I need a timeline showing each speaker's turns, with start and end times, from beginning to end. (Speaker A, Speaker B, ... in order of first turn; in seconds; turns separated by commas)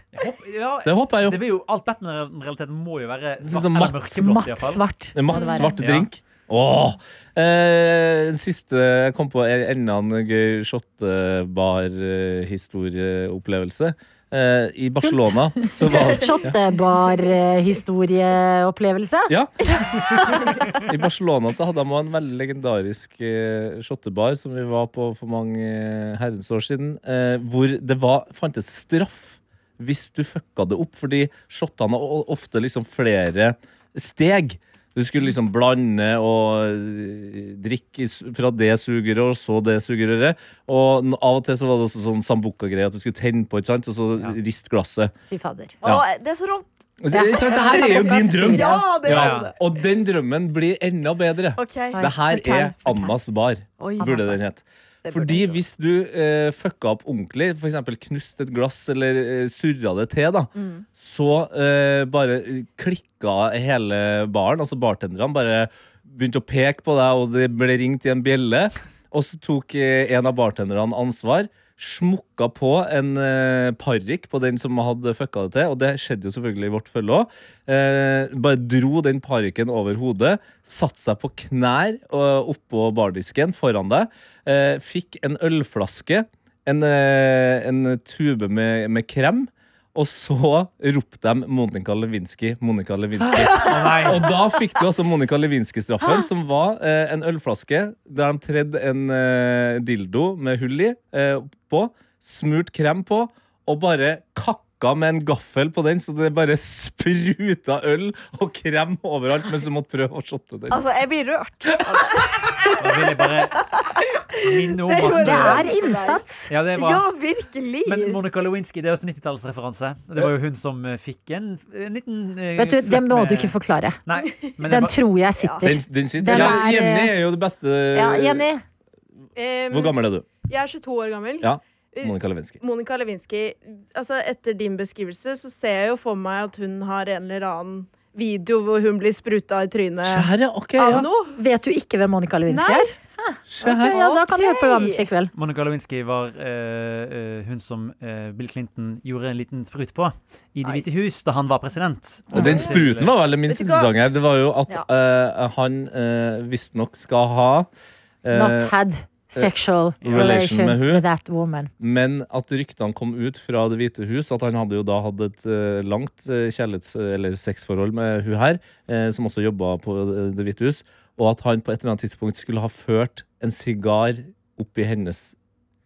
Speaker A: 0.1-4.8, Speaker B: 0.8-1.4, Speaker B: 3.4-4.2, Speaker C: 4.2-5.8, Speaker B: 5.1-16.6, Speaker D: 5.3-5.7, Speaker A: 5.8-6.1, Speaker C: 15.0-19.3, Speaker D: 15.9-16.5, Speaker B: 19.3-19.6, Speaker D: 19.8-20.8, Speaker B: 20.9-45.1, Speaker C: 45.3-45.8, Speaker D: 45.8-49.5, Speaker B: 47.0-110.8, Speaker C: 47.1-48.8, Speaker A: 49.1-49.5, Speaker D: 51.6-52.1, Speaker C: 51.9-53.1, Speaker D: 53.8-54.2, Speaker C: 54.0-54.3, Speaker D: 55.0-55.6, Speaker D: 60.5-60.9, Speaker A: 93.5-94.3, Speaker D: 93.5-94.1, Speaker D: 110.7-113.2, Speaker A: 112.8-113.7, Speaker A: 114.4-115.7, Speaker D: 114.7-116.2, Speaker C: 115.1-116.5, Speaker A: 116.5-117.1, Speaker D: 116.8-118.2, Speaker A: 117.8-123.5, Speaker C: 122.6-124.0, Speaker A: 124.1-125.0, Speaker E: 124.2-124.5, Speaker C: 124.7-127.1, Speaker D: 125.4-125.7, Speaker B: 125.6-128.5, Speaker A: 126.3-126.6, Speaker C: 127.9-128.6, Speaker E: 129.3-141.4, Speaker B: 129.7-130.3, Speaker B: 131.4-132.6, Speaker B: 140.0-141.1, Speaker C: 140.8-145.3, Speaker E: 142.5-142.9, Speaker B: 143.5-144.0, Speaker D: 143.8-145.1, Speaker A: 145.3-153.1, Speaker D: 150.6-151.0, Speaker B: 152.3-157.7, Speaker D: 152.4-152.8, Speaker D: 153.5-153.9, Speaker B: 158.2-158.7, Speaker C: 158.3-161.7, Speaker B: 160.0-161.1, Speaker B: 161.8-175.3